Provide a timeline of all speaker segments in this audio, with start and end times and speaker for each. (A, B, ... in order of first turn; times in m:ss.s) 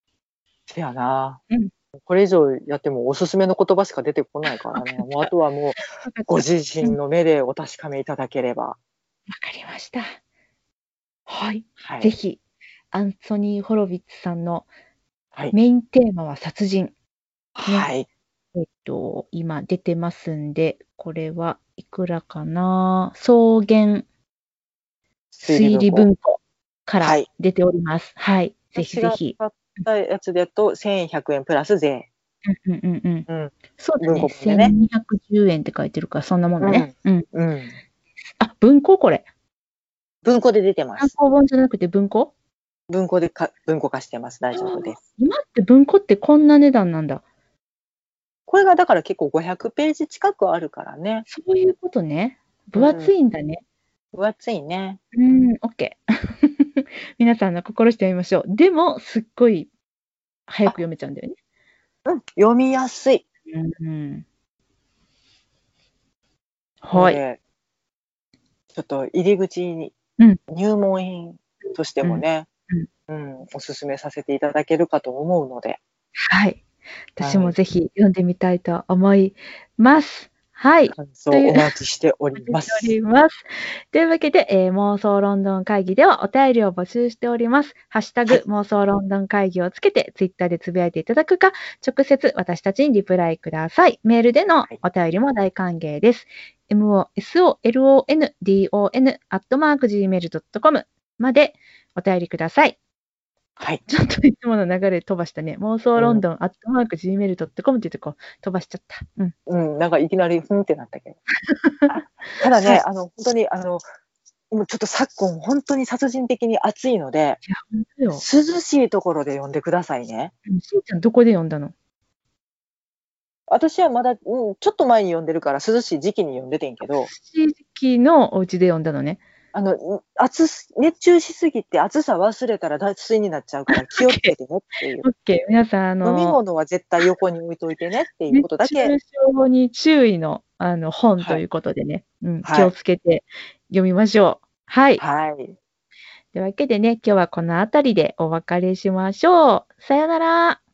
0:00.7-0:01.4 A
0:02.0-0:08.8 A
0:04.5-0:05.3 B
0:06.0-0:07.0 B
0:09.3-0:10.2 B
0:11.3-0:12.4 B
0:11.8-0:12.1 A
0:12.9-0:14.7 B
0:15.5-0:16.9 B
0:17.6-0:18.1 A
0:17.6-0:17.9 B
0:18.6-0:24.1 B
0:25.3-0:26.1 A
0:25.4-0:29.4 B
0:27.0-0:27.3 A
0:28.8-0:32.1 A
0:32.5-0:37.2 B
0:33.3-0:34.7 A
0:36.6-0:37.8 A
0:38.4-0:39.3 B
0:40.2-0:41.1 A
0:41.0-0:42.3 B
0:42.9-0:45.0 A
0:44.5-0:47.2 B
0:48.5-0:51.3 A
0:51.3-0:53.6 B
0:52.8-0:53.1 A
0:54.1-0:55.0 A
0:55.1-0:59.7 B
1:00.5-1:01.4 B
1:02.0-1:03.2 A
1:03.5-1:04.2 B
1:06.8-1:07.2 B
1:06.9-1:07.4 A
1:08.7-1:10.0 A
1:10.5-1:12.5 A
1:12.0-1:12.9 B
1:13.1-1:15.8 A
1:16.3-1:16.6 B
1:17.2-1:21.8 B
1:17.2-1:17.6 A
1:20.9-1:23.0 A
1:22.4-1:42.8 B
1:43.9-1:49.4 B
1:46.0-1:46.2 A
1:49.5-1:51.2 A
1:51.5-1:52.8 B
1:51.9-1:53.8 A
1:54.5-1:57.4 A
1:57.5-1:58.2 B
1:58.1-2:00.3 A
2:00.5-2:01.7 B
2:03.5-2:07.1 A
2:06.8-2:09.2 B
2:09.5-2:15.1 A
2:13.7-2:14.3 B
2:15.0-2:16.4 B
2:16.0-2:18.9 A
2:18.3-2:25.0 B
2:22.4-2:22.7 A
2:25.0-2:25.6 A
2:26.3-2:30.6 B